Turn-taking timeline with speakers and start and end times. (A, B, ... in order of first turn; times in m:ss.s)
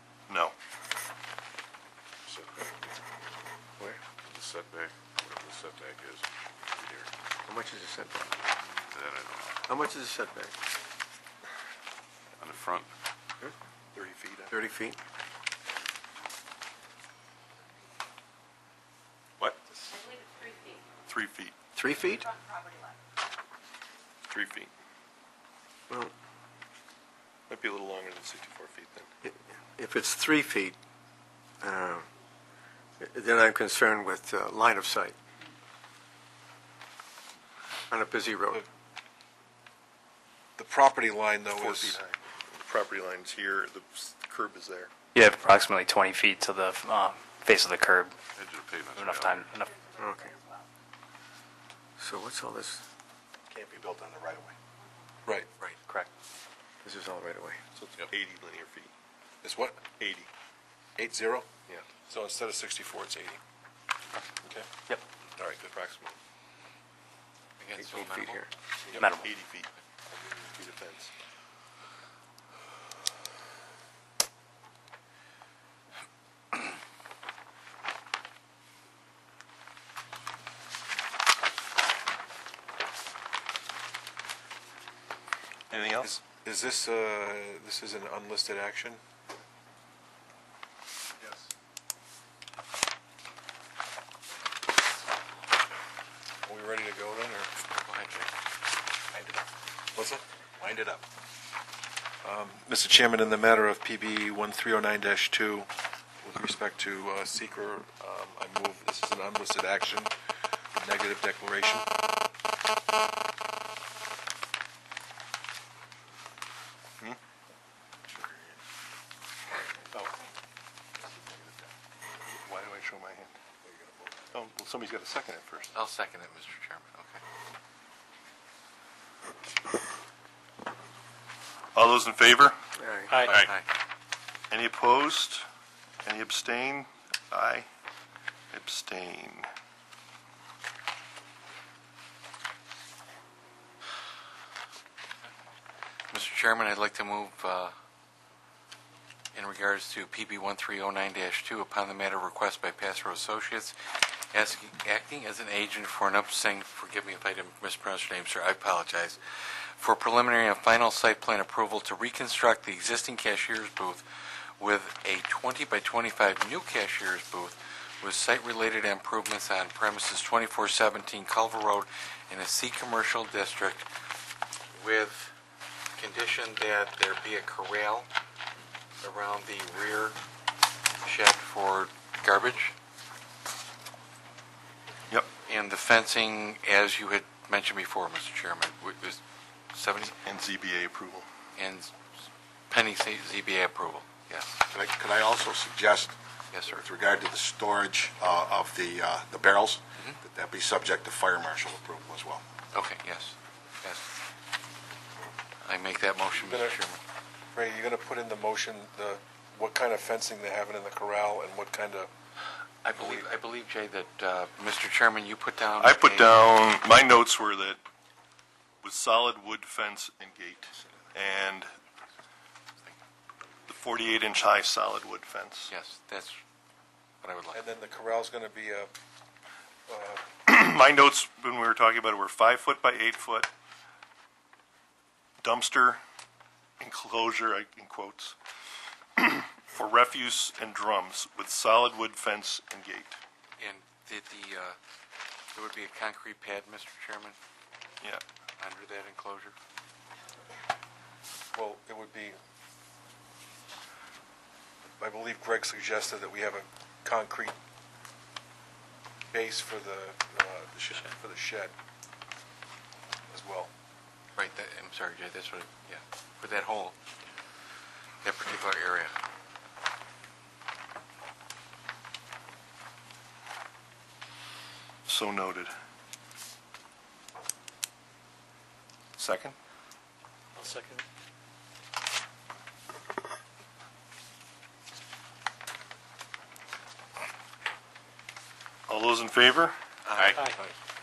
0:00.3-0:00.5 A
0:02.3-0:03.0 B
0:04.2-0:07.1 B
0:07.5-0:08.4 C
0:08.9-0:09.6 B
0:09.7-0:10.6 C
0:12.4-0:12.9 B
0:13.9-0:14.6 A
0:14.5-0:15.0 C
0:19.9-0:20.8 D
0:21.1-0:21.6 A
0:21.7-0:22.3 C
0:22.2-0:22.9 D
0:24.3-0:24.7 A
0:27.5-0:29.1 A
0:29.2-0:30.8 C
0:31.6-0:32.1 C
0:33.0-0:35.2 C
0:37.9-0:38.6 C
0:40.6-0:42.0 E
0:41.6-0:44.9 A
0:45.2-0:48.2 F
0:48.3-0:49.5 B
0:48.9-0:49.8 F
0:49.7-0:50.6 D
0:50.0-0:50.4 C
0:52.0-0:52.8 C
0:53.5-0:54.0 E
0:56.8-0:57.6 C
0:57.8-0:58.9 A
0:59.4-0:59.9 E
1:00.0-1:00.3 A
1:01.0-1:01.5 E
1:02.1-1:03.4 E
1:04.4-1:04.8 E
1:05.4-1:06.1 E
1:07.6-1:08.4 G
1:07.8-1:08.5 C
1:08.9-1:09.3 F
1:09.0-1:09.7 A
1:10.4-1:11.1 A
1:25.7-1:26.1 A
1:26.0-1:29.0 E
1:36.4-1:37.5 E
1:37.8-1:38.3 G
1:40.0-1:40.2 E
1:42.2-1:45.7 E
1:46.2-1:50.1 E
1:50.8-1:51.9 E
2:02.3-2:03.4 A
2:04.3-2:05.7 A
2:05.7-2:07.2 G
2:11.8-2:12.6 A
2:12.8-2:13.2 C
2:13.2-2:13.7 G
2:13.2-2:13.5 B
2:14.5-2:15.4 A
2:16.0-2:17.7 A
2:18.5-2:19.5 A
2:26.1-2:27.7 G
2:29.3-2:44.0 G
2:44.6-2:53.9 G
2:54.8-2:55.3 G
2:56.0-2:58.1 G
2:59.0-3:00.2 G
3:01.0-3:02.7 G
3:05.5-3:09.2 G
3:09.7-3:10.2 G
3:10.2-3:11.3 A
3:11.6-3:12.0 G
3:12.7-3:14.6 G
3:14.7-3:16.1 H
3:16.5-3:16.8 G
3:16.7-3:22.4 H
3:22.7-3:24.2 G
3:25.6-3:27.0 G
3:26.3-3:26.8 E
3:27.5-3:32.1 E
3:32.8-3:36.4 G
3:33.0-3:33.3 E
3:35.8-3:37.8 A
3:38.8-3:41.7 A
3:43.7-3:45.7 A
3:45.7-3:46.4 G
3:47.2-3:47.6 G
3:47.5-3:48.9 E
3:49.9-3:50.3 E
3:50.4-3:53.5 A
3:55.4-3:56.0 A
3:56.8-3:58.4 A
3:59.2-4:03.2 A
4:03.6-4:04.8 G
4:05.5-4:07.4 G
4:08.6-4:09.5 G
4:11.5-4:12.4 E
4:15.0-4:17.6 E
4:19.3-4:21.7 E
4:23.3-4:23.7 E
4:24.4-4:27.0 G
4:28.2-4:29.2 G
4:35.1-4:35.7 A
4:39.2-4:39.6 A
4:40.6-4:41.0 D
4:48.9-4:49.8 A
4:50.2-4:50.5 B